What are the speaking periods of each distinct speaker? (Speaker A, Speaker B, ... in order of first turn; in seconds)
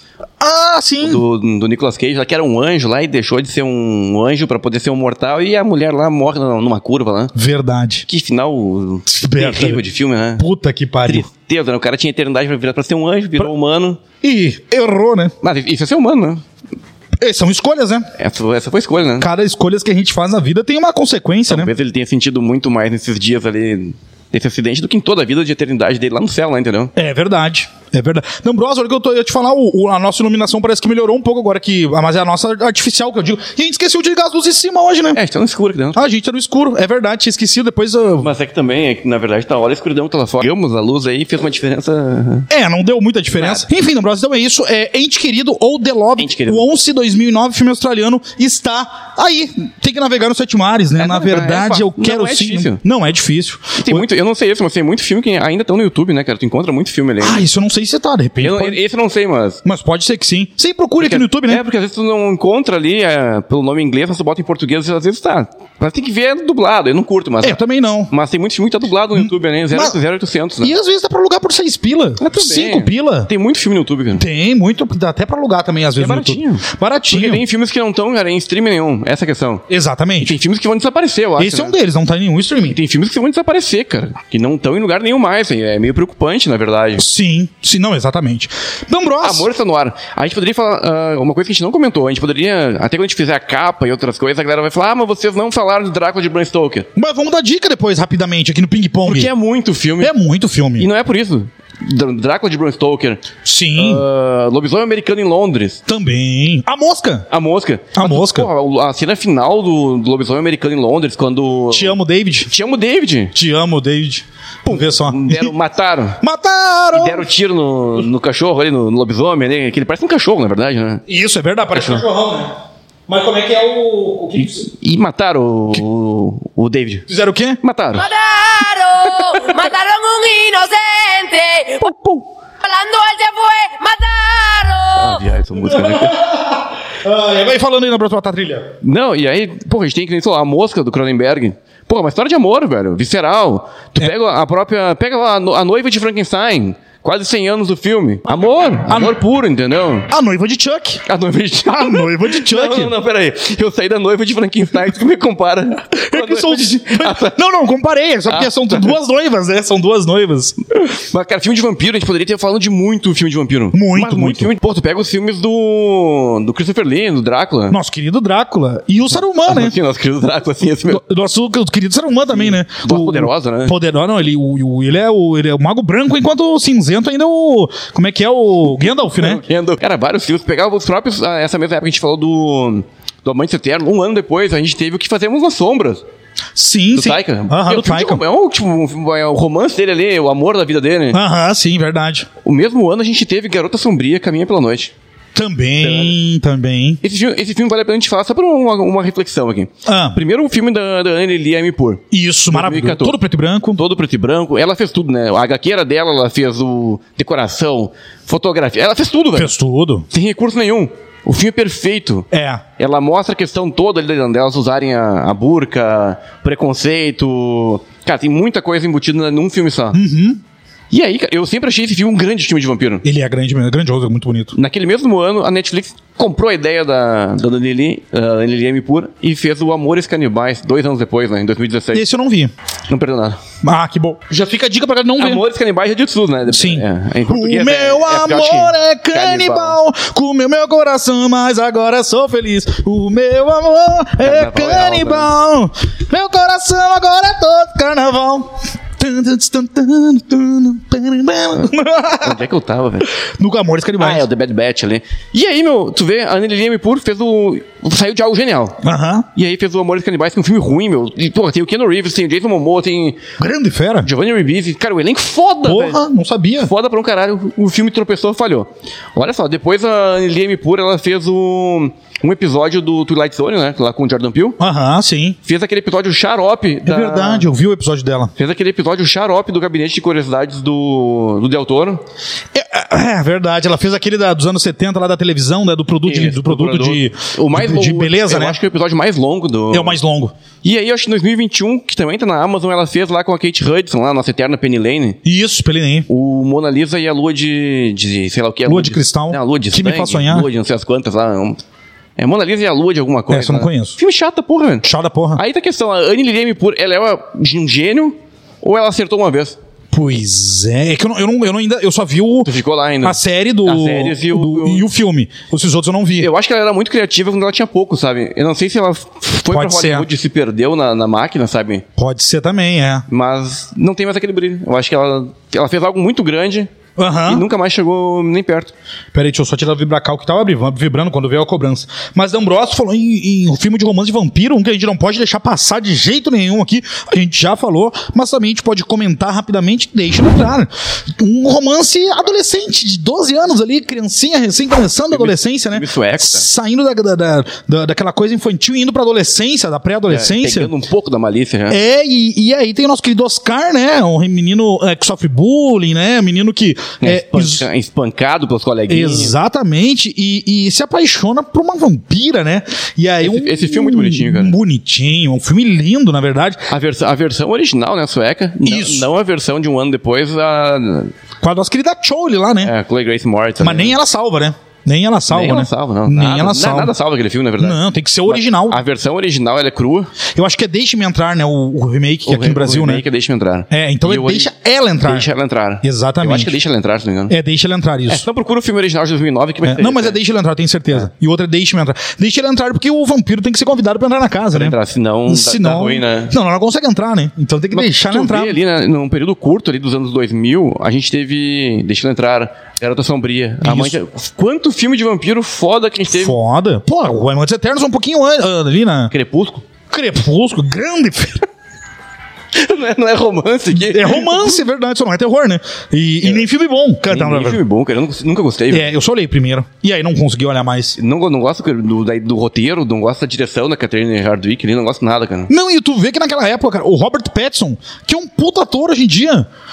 Speaker A: 0.4-1.2, 7.3-8.0, 9.1-9.8, 10.4-11.3, 14.2-15.3, 17.2-18.1, 19.2-21.7, 27.0-35.2, 36.0-38.3, 42.5-54.0, 57.2-58.8, 59.6-61.6, 67.4-68.1, 69.2-70.0, 70.6-73.3, 74.2-77.4, 79.7-80.4, 81.4-82.8, 87.0-89.5, 97.0-99.3, 100.0-100.9, 103.4-104.0, 105.9-107.3, 108.0-108.5, 111.7-112.5, 113.3-115.5, 116.2-117.3, 121.1-122.5, 123.1-124.7, 127.1-127.6, 135.6-138.7, 148.9-149.3, 150.1-151.0, 151.7-152.9, 156.0-160.6, 163.7-164.5, 167.7-169.8, 170.9-179.4, 186.6-188.2, 191.1-192.3, 195.3-197.0, 199.9-200.2, 202.1-203.8, 209.4-210.1, 212.3-212.6, 219.9-220.4, 223.0-224.5, 231.9-232.5, 233.6-235.4, 236.5-252.4, 253.1-254.3, 258.8-259.3, 263.4-264.1, 265.6-266.7, 274.6-275.4, 276.9-278.3, 282.5-288.6, 289.7-290.3, 295.2-296.1, 298.7-300.5, 303.3-304.0, 304.8-305.4, 309.9-312.5, 313.0-316.3, 319.5-320.1, 322.0-323.1, 327.0-327.4, 329.1-350.7, 351.7-357.7, 358.9-366.7, 368.6-369.1, 371.4-372.7, 373.6-376.9, 377.6-378.8, 380.3-383.0, 383.7-385.3, 385.8-386.5, 387.3-388.2, 389.6-398.6, 403.6-404.0, 406.1-409.1, 409.9-411.5, 413.8-417.6, 418.7-421.0, 425.5-429.5
Speaker B: 1.0-7.3, 8.1-10.4, 11.1-14.0, 15.4-16.4, 18.2-19.3, 21.5-26.9, 35.1-36.0, 38.2-42.5, 43.4-43.6, 46.2-46.7, 51.0-52.8, 53.8-57.4, 58.4-59.6, 61.0-67.6, 68.1-70.8, 72.2-74.2, 76.0-79.6, 80.2-81.8, 82.7-87.1, 89.2-96.9, 99.0-100.1, 100.8-105.8, 107.3-113.3, 114.7-116.2, 116.9-121.0, 121.7-122.0, 124.7-127.1, 127.6-128.1, 135.0-136.2, 138.8-150.1, 151.1-157.4, 158.3-158.9, 160.8-167.8, 169.4-171.0, 172.3-173.8, 178.8-186.0, 186.9-191.2, 192.4-194.9, 195.8-196.2, 197.0-203.2, 203.7-209.5, 210.1-220.0, 220.9-223.1, 224.5-232.1, 232.9-233.4, 235.2-239.8, 244.2-245.3, 252.2-253.1, 254.0-258.8, 259.4-263.2, 264.0-266.0, 266.6-274.6, 275.4-277.5, 278.4-282.0, 286.1-290.0, 290.6-295.2, 296.1-301.6, 302.2-309.6, 312.4-314.9, 316.2-321.9, 323.1-326.7, 327.3-328.7, 345.1-346.5, 350.1-351.8, 357.0-359.4, 363.2-364.6, 366.7-371.1, 372.6-374.0, 375.3-380.1, 382.3-384.5, 385.0-387.4, 388.1-390.2, 394.5-396.3, 397.7-406.4, 409.1-409.6, 412.5-414.6, 417.1-418.9, 421.0-425.5
Speaker C: 128.0-131.9, 132.6-135.2